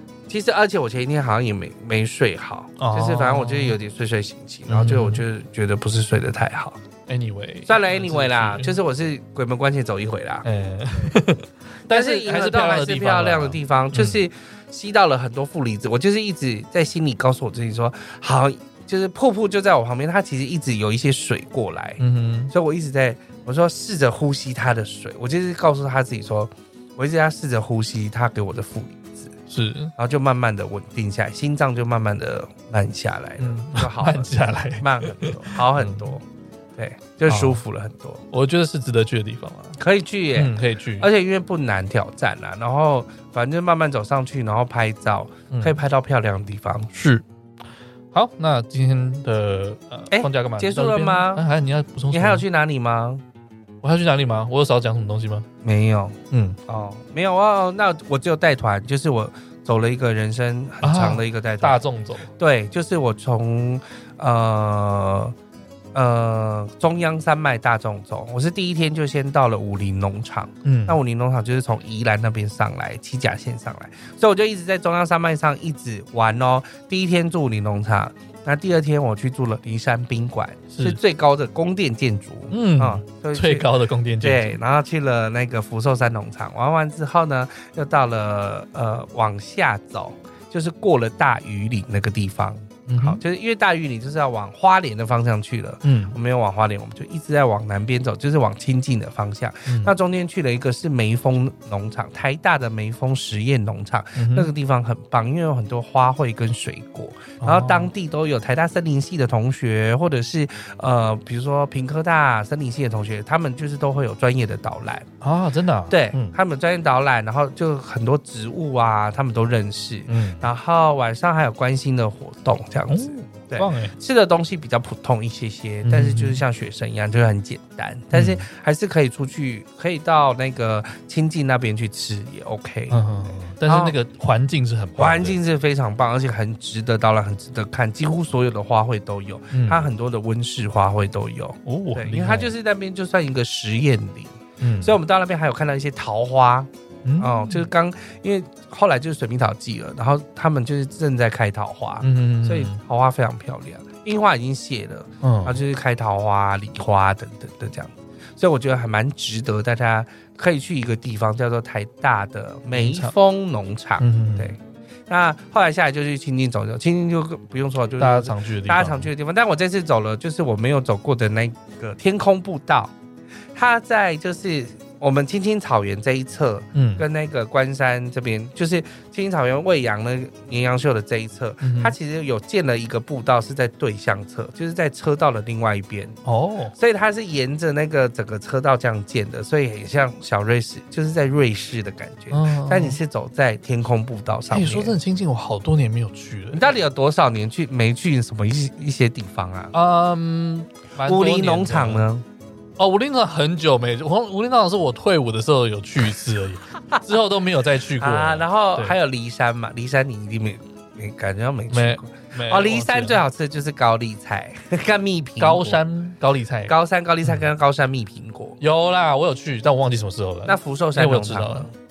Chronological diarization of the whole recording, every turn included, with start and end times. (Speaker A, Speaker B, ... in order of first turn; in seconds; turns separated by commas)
Speaker A: 0.3-6.8, Speaker B: 2.8-3.8, Speaker B: 4.7-5.2, Speaker B: 7.1-8.8, Speaker A: 7.7-10.4, Speaker B: 10.4-14.2, Speaker A: 11.9-29.3, Speaker B: 22.0-22.5, Speaker B: 29.5-29.9, Speaker A: 30.0-36.2, Speaker B: 33.4-36.1, Speaker A: 36.8-38.2, Speaker B: 37.3-37.6, Speaker B: 38.3-39.8, Speaker A: 39.8-46.9, Speaker B: 40.3-41.1, Speaker B: 45.5-45.8, Speaker B: 46.9-47.2, Speaker B: 48.1-52.4, Speaker A: 50.1-51.4, Speaker A: 52.1-53.2, Speaker B: 53.8-55.5, Speaker A: 55.6-56.2, Speaker B: 56.3-56.6, Speaker A: 56.7-61.8, Speaker B: 60.8-62.3, Speaker A: 62.4-65.3, Speaker A: 65.9-83.7, Speaker B: 70.6-71.0, Speaker B: 80.7-81.0, Speaker B: 82.5-84.6, Speaker A: 84.2-115.0, Speaker B: 92.9-93.2, Speaker B: 95.8-96.2, Speaker B: 99.7-99.9, Speaker B: 104.2-104.5, Speaker B: 107.4-107.9, Speaker B: 115.2-116.4, Speaker A: 115.9-133.0, Speaker B: 120.1-120.5, Speaker B: 122.9-124.0, Speaker B: 125.8-126.4, Speaker B: 128.1-128.4, Speaker B: 132.9-135.4, Speaker A: 133.7-133.9, Speaker A: 135.0-172.9, Speaker B: 139.5-139.9, Speaker B: 141.7-142.5, Speaker B: 144.6-145.0, Speaker B: 147.0-147.7, Speaker B: 152.0-152.8, Speaker B: 155.2-155.6, Speaker B: 162.7-163.1, Speaker B: 164.0-164.5, Speaker B: 168.0-169.1, Speaker A: 173.5-186.2, Speaker B: 176.7-177.0, Speaker B: 181.6-181.9, Speaker B: 186.2-186.8, Speaker A: 186.8-195.0, Speaker B: 192.3-193.0, Speaker B: 194.5-196.7, Speaker A: 196.5-199.7, Speaker B: 199.7-202.1, Speaker A: 201.0-202.2, Speaker B: 202.8-208.9, Speaker A: 208.0-215.8, Speaker B: 211.7-213.2, Speaker B: 215.4-216.7, Speaker A: 216.7-218.6, Speaker B: 218.6-221.7, Speaker A: 220.5-221.7